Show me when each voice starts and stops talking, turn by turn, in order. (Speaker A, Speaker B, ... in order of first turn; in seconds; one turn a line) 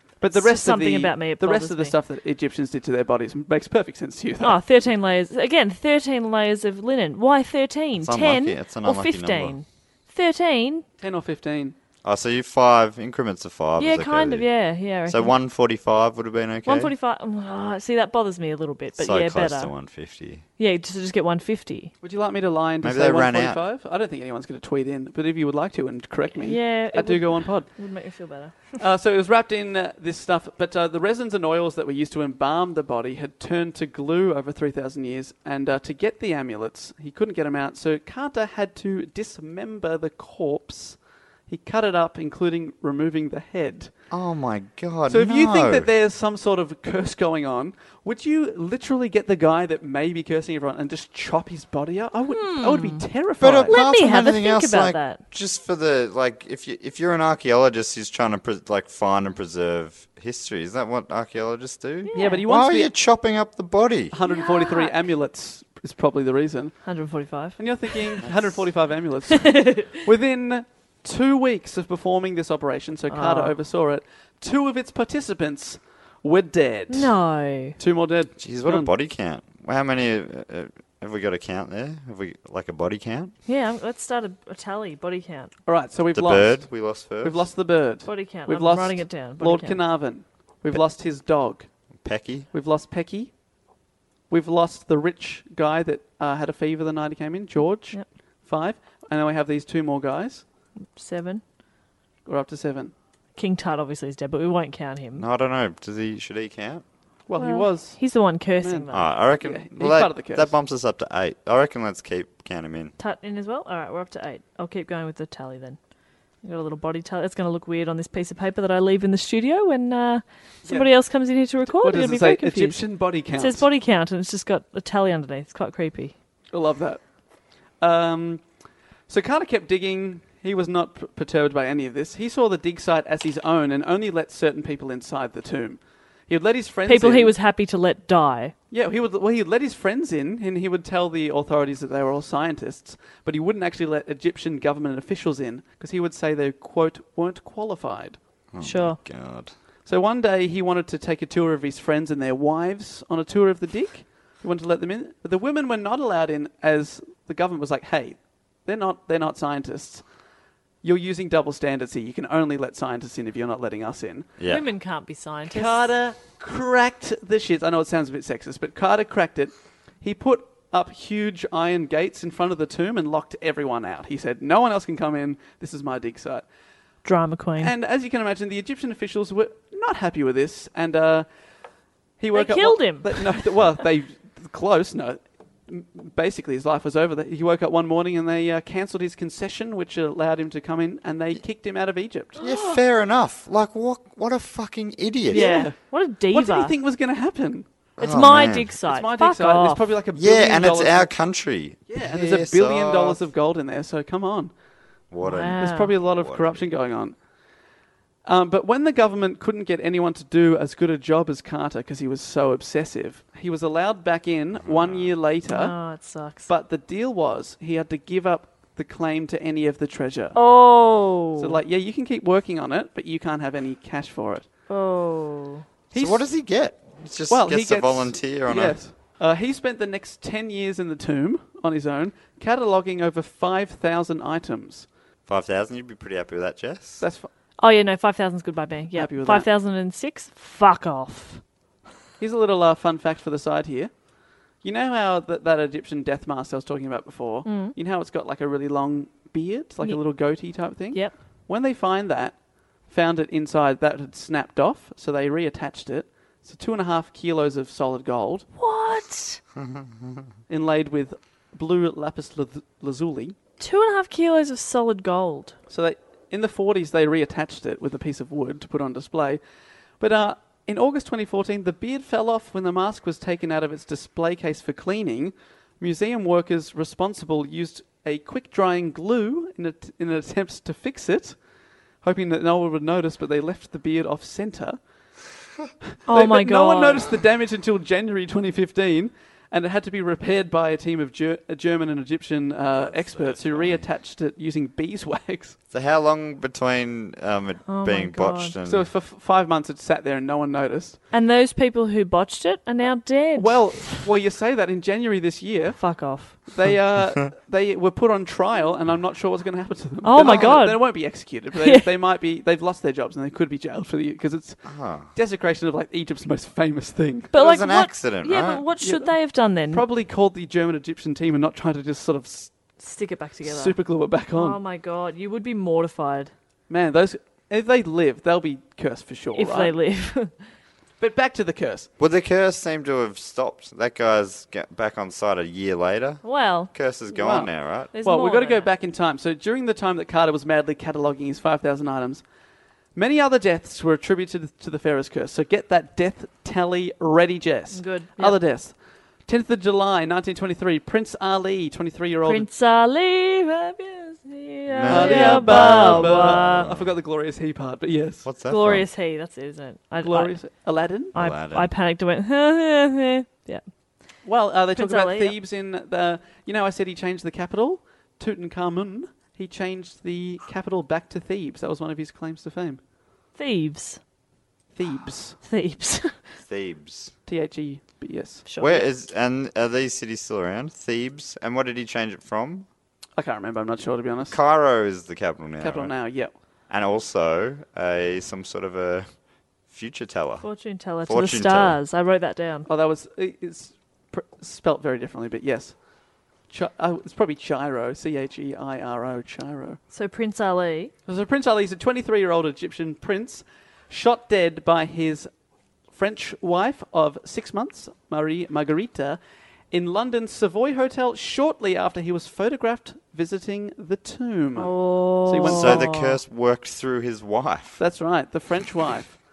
Speaker A: 0.2-4.6
Speaker B: 0.3-1.9
Speaker B: 4.4-10.8
Speaker C: 8.0-9.6
Speaker A: 11.0-11.8
Speaker C: 12.0-14.5
Speaker B: 13.8-15.3
Speaker C: 15.1-16.9
Speaker B: 16.6-19.7
Speaker C: 18.9-20.4
Speaker B: 20.6-21.9
Speaker A: 22.0-27.8
Speaker C: 22.8-23.6
Speaker B: 26.3-28.8
Speaker A: 28.8-43.9
Speaker C: 44.1-45.9
Speaker A: 45.1-53.8
Speaker B: 52.3-53.0
Speaker C: 53.4-64.1
Speaker B: 53.7-55.2
Speaker B: 62.0-62.5
Speaker A: 62.1-62.9
Speaker A: 64.1-66.9
Speaker B: 64.2-64.9
Speaker B: 66.8-68.2
Speaker A: 67.5-77.1
Speaker B: 69.3-70.0
Speaker B: 73.1-73.5
Speaker B: 76.9-77.8
Speaker A: 77.8-78.9
Speaker C: 78.4-83.3
Speaker B: 83.5-85.5
Speaker A: 85.7-91.7
Speaker C: 86.1-87.5
Speaker B: 88.0-89.8
Speaker C: 92.0-92.5
Speaker A: 92.5-93.3
Speaker A: 94.3-100.4
Speaker B: 100.9-101.4
Speaker A: 102.2-102.9
Speaker B: 103.3-105.2
Speaker C: 105.2-106.8
Speaker A: 107.3-108.0
Speaker B: 107.4-109.1
Speaker A: 108.6-110.5
Speaker C: 108.9-112.9
Speaker B: 113.0-115.8
Speaker B: 116.4-122.8
Speaker A: 120.6-120.9
Speaker A: 121.7-123.7
Speaker B: 123.4-126.1
Speaker A: 126.5-127.0
Speaker A: 127.8-128.4
Speaker A: 129.1-137.3
Speaker B: 136.9-138.5
Speaker A: 138.7-148.2
Speaker C: 148.5-149.5
Speaker B: 148.6-149.0
Speaker A: 149.8-160.0
Speaker A: 160.8-164.3
Speaker C: 164.4-164.7
Speaker B: 164.4-165.9
Speaker A: 165.5-176.4
Speaker B: 177.0-177.7
Speaker A: 177.6-181.3
Speaker A: 182.2-192.4
Speaker B: 182.3-183.3
Speaker B: 192.4-192.8
Speaker C: 192.4-195.6
Speaker B: 195.3-196.7
Speaker A: 195.3-197.7
Speaker C: 198.0-198.7
Speaker B: 198.0-199.9
Speaker A: 198.9-201.1
Speaker C: 200.1-203.2
Speaker A: 201.9-204.5
Speaker C: 205.1-206.7
Speaker B: 205.2-205.9
Speaker A: 205.5-207.1
Speaker A: 208.2-215.7
Speaker C: 214.6-215.1
Speaker B: 215.5-216.5
Speaker A: 216.5-220.4
Speaker B: 220.3-221.6
Speaker A: 221.4-224.5
Speaker B: 224.7-225.7
Speaker A: 225.9-226.2
Speaker C: 225.9-228.8
Speaker A: 227.3-234.9
Speaker C: 235.3-237.0
Speaker A: 237.0-237.3
Speaker B: 237.6-241.4
Speaker A: 238.9-239.5
Speaker A: 242.2-243.9
Speaker A: 244.6-252.3
Speaker B: 247.4-247.8
Speaker A: 252.9-258.5
Speaker B: 258.6-259.4
Speaker C: 259.6-260.2
Speaker A: 260.5-263.4
Speaker B: 263.6-265.5
Speaker A: 265.7-269.4
Speaker A: 270.0-281.4
Speaker A: 282.0-284.8
Speaker A: 286.1-295.6
Speaker B: 286.1-287.1
Speaker C: 292.7-293.8
Speaker C: 295.7-298.9
Speaker B: 297.7-298.6
Speaker A: 298.6-301.0
Speaker B: 301.1-304.0
Speaker A: 303.4-305.8
Speaker B: 305.8-306.4
Speaker A: 306.4-317.3
Speaker B: 310.0-310.9
Speaker B: 311.6-311.9
Speaker C: 314.6-315.1
Speaker B: 317.3-319.9
Speaker C: 317.3-318.6
Speaker A: 318.8-322.6
Speaker B: 322.8-323.8
Speaker A: 323.4-324.6
Speaker B: 324.3-326.3
Speaker A: 326.7-329.7
Speaker B: 329.3-330.4
Speaker A: 331.0-331.9
Speaker C: 332.0-337.9
Speaker B: 336.2-336.7
Speaker A: 337.1-337.5
Speaker B: 337.9-338.7
Speaker A: 338.0-342.2
Speaker A: 342.9-348.7
Speaker B: 347.7-348.4
Speaker A: 349.3-352.5
Speaker B: 352.2-356.7
Speaker C: 354.7-356.9
Speaker A: 354.9-358.2
Speaker C: 358.2-358.9
Speaker B: 358.4-360.4
Speaker A: 360.0-361.1
Speaker B: 361.1-363.6
Speaker C: 361.1-361.7
Speaker A: 364.2-372.8
Speaker B: 364.7-365.4
Speaker B: 373.4-374.0
Speaker A: 374.7-375.4
Speaker B: 375.4-376.3
Speaker C: 376.4-377.1
Speaker A: 377.3-378.4
Speaker B: 378.4-378.9
Speaker C: 378.6-382.7
Speaker A: 383.2-384.4
Speaker C: 384.3-385.9
Speaker A: 385.6-386.3
Speaker C: 386.7-389.1
Speaker C: 389.7-390.5
Speaker B: 390.4-392.7
Speaker C: 391.0-391.8
Speaker A: 392.7-395.7
Speaker A: 396.5-399.8
Speaker B: 399.9-400.9
Speaker A: 401.1-405.3
Speaker A: 405.9-409.2
Speaker A: 409.7-414.7
Speaker B: 414.6-416.2
Speaker A: 415.2-415.9
Speaker C: 415.4-417.8
Speaker A: 417.8-419.1